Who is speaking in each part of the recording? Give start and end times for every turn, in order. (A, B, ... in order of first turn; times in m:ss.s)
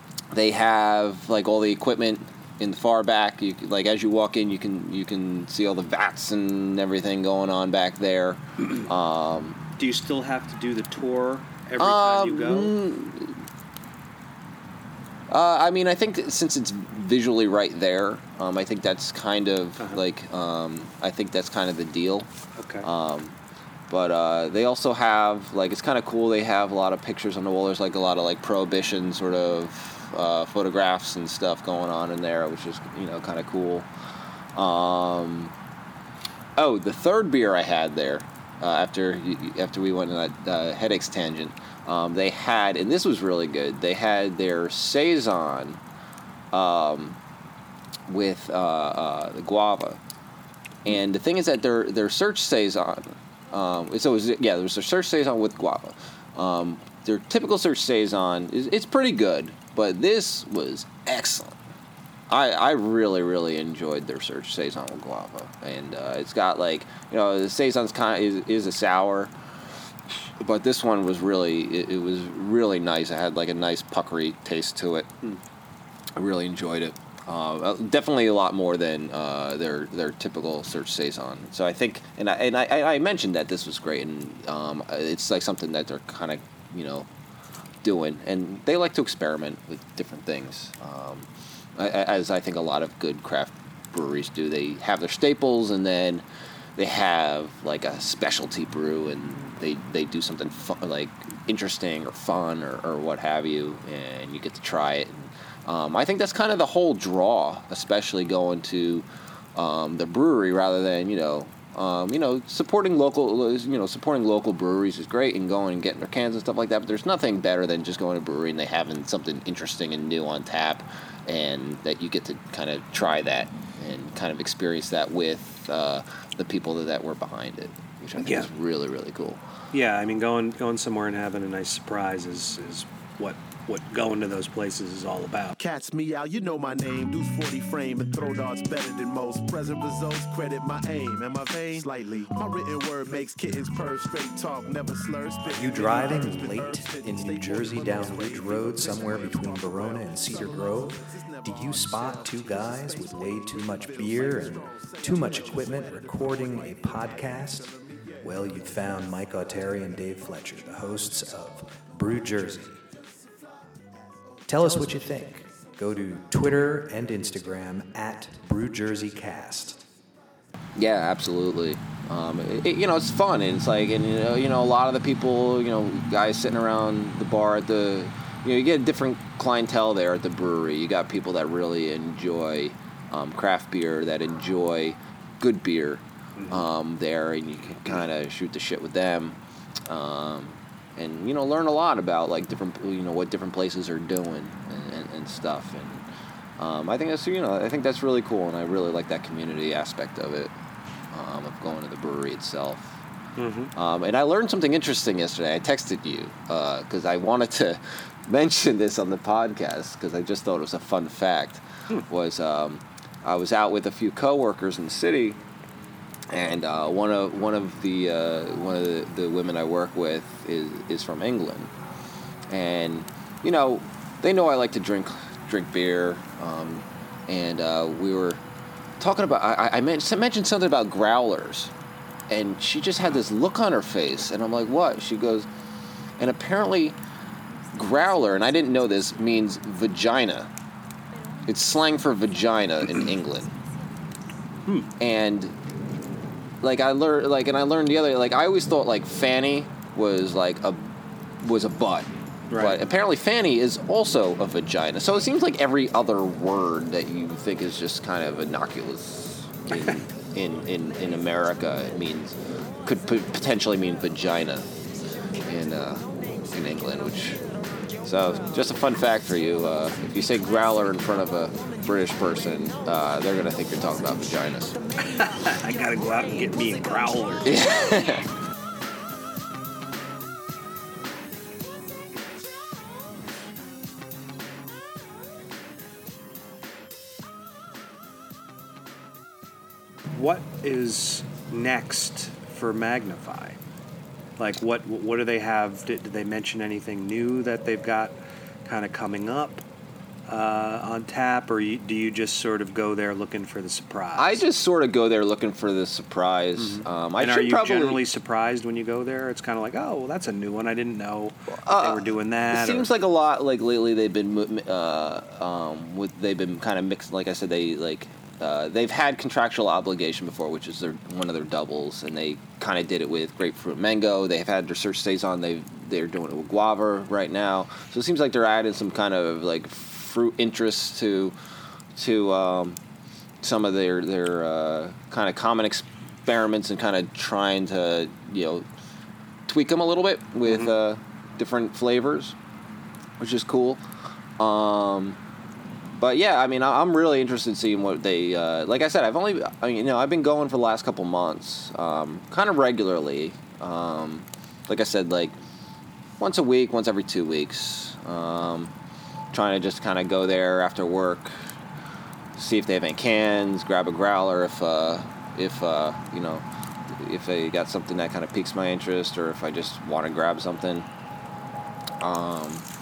0:00.3-0:09.6 A
0:09.8-0:12.8 B
0:11.8-0:13.4 A
0:15.3-0:22.3 A
0:22.6-0:22.9 B
0:22.8-0:23.4 A
0:23.9-0:33.9 A
0:34.5-0:35.5 A
0:36.6-0:45.8 A
0:46.5-0:47.2 A
0:48.1-0:50.0 A
0:50.8-1:01.6 A
1:02.3-1:09.3 A
1:10.4-1:15.1 A
1:16.2-1:27.1 A
1:27.8-1:36.2 A
1:36.8-2:09.4 A
2:08.2-2:08.5 B
2:09.7-2:15.6 B
2:15.6-2:35.9 C
2:25.5-2:42.8 D
2:44.5-2:49.8 D
2:50.8-3:16.1 A
3:06.4-3:06.7 B
3:16.6-3:20.5 A
3:21.1-3:23.0 A
3:23.4-3:23.7 B
3:23.8-3:35.4 A
3:36.3-3:41.7 A
3:42.5-3:48.4 A
3:49.0-3:51.7 A
3:52.3-3:55.5 A
3:56.2-3:57.0 A
3:57.7-4:00.5 A
4:01.4-4:03.5 A
4:04.6-4:04.9 B
4:05.0-4:05.5 A
4:06.6-4:24.8 A
4:12.5-4:12.8 B
4:25.4-4:27.4 A
4:28.0-4:34.8 A
4:35.0-4:37.6 B
4:37.4-4:38.3 A
4:50.1-4:53.6 B
4:54.4-4:59.6 B
5:00.3-5:04.4 B
5:04.2-5:08.0 A
5:06.6-5:12.9 B
5:11.6-5:31.4 A
5:32.0-5:32.8 A
5:33.4-5:38.6 A
5:39.5-5:42.4 A
5:40.4-5:40.7 B
5:43.2-5:43.8 A
5:44.4-5:45.2 A
5:46.0-5:55.4 A
5:56.2-5:58.7 A
5:59.3-6:01.5 A
6:02.4-6:10.9 A
6:12.0-6:12.7 A